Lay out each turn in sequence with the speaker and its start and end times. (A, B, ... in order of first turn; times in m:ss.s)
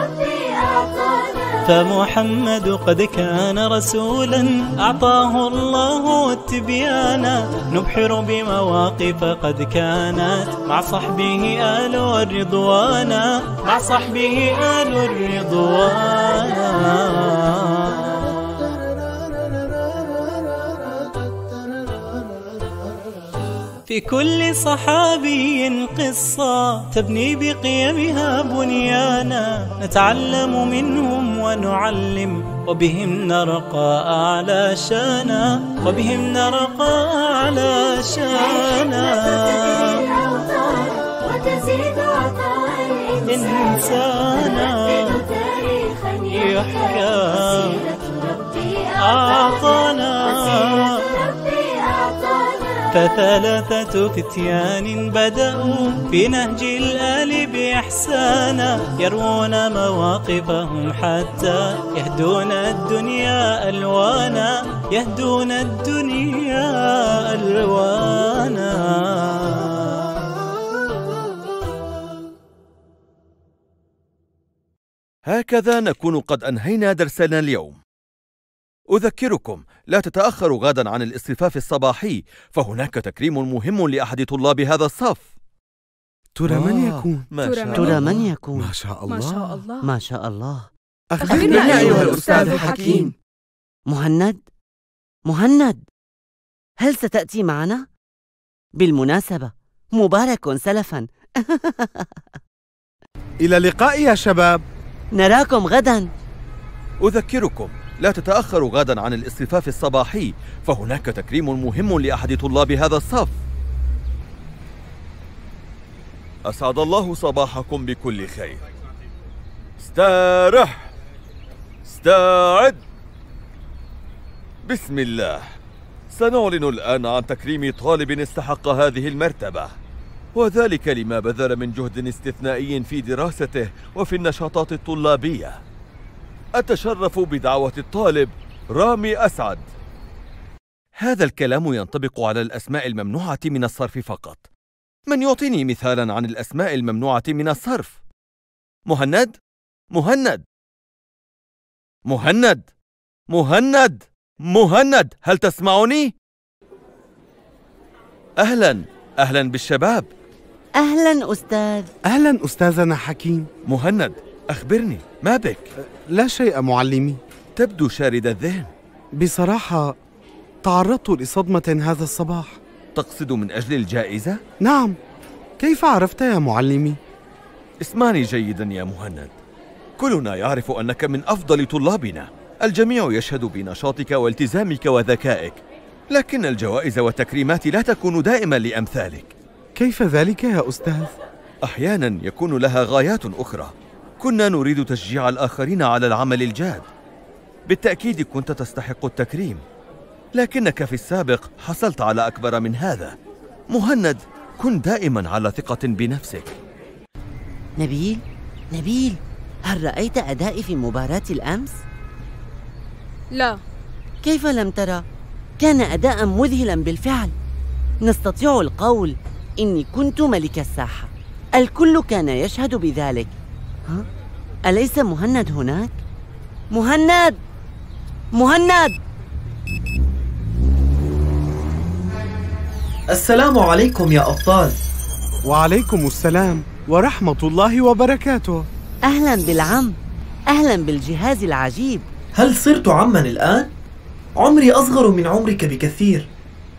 0:00.2-0:01.5 A
0:01.7-0:18.4 B
0:23.9-0:40.1 B
0:40.6-0:43.2 A
0:43.2-0:45.3 B
0:45.5-0:46.3 A
0:46.3-0:47.9 B
0:47.9-0:48.7 A
0:49.0-0:51.2 B
0:51.6-0:52.6 A
0:52.9-1:10.0 B
1:15.3-1:17.8 C
1:18.9-1:25.2 C
1:26.4-1:27.3 D
1:26.5-1:28.0 C
1:27.4-1:27.9 E
1:27.7-1:28.6 A
1:27.8-1:29.6 D
1:29.1-1:29.8 E
1:29.8-1:30.7 A
1:31.1-1:33.1 D
1:31.2-1:32.9 E
1:31.3-1:32.3 C
1:32.4-1:33.1 A
1:33.9-1:34.4 A
1:35.3-1:35.8 A
1:36.8-1:37.9 A
1:38.8-1:42.1 A
1:43.4-1:44.6 D
1:45.1-1:46.1 A
1:47.0-1:53.4 C
1:56.5-1:58.6 C
1:59.8-2:00.9 C
2:01.8-2:02.8 C
2:04.7-2:05.4 C
2:06.1-2:09.7 C
2:10.4-2:15.6 C
2:16.6-2:19.6 C
2:21.0-2:24.4 C
2:25.1-2:28.0 C
2:28.9-2:29.4 C
2:29.9-2:30.4 C
2:32.1-2:32.7 C
2:33.3-2:36.1 C
2:38.4-2:40.1 C
2:40.8-2:41.9 A
2:42.0-2:43.5 D
2:43.7-2:45.7 C
2:46.1-2:47.2 D
2:47.6-2:48.7 C
2:49.2-2:50.0 D
2:50.6-2:52.6 D
2:53.0-2:54.4 C
2:54.6-2:55.0 D
2:55.6-2:57.0 D
2:57.8-2:59.3 C
3:00.0-3:09.3 C
3:09.8-3:11.1 D
3:11.6-3:16.9 C
3:17.7-3:19.6 C
3:20.4-3:23.2 C
3:23.7-3:26.6 C
3:27.8-3:31.8 A
3:33.3-3:33.6 E
3:34.2-3:35.0 A
3:35.6-3:37.3 A
3:38.0-3:43.3 A
3:44.6-3:46.0 A
3:46.7-3:47.4 A
3:48.3-3:49.0 A
3:53.1-3:54.8 F
3:55.4-3:58.7 D
3:59.0-4:00.0 A
4:00.5-4:02.1 A
4:02.4-4:03.7 F
4:04.4-4:06.3 F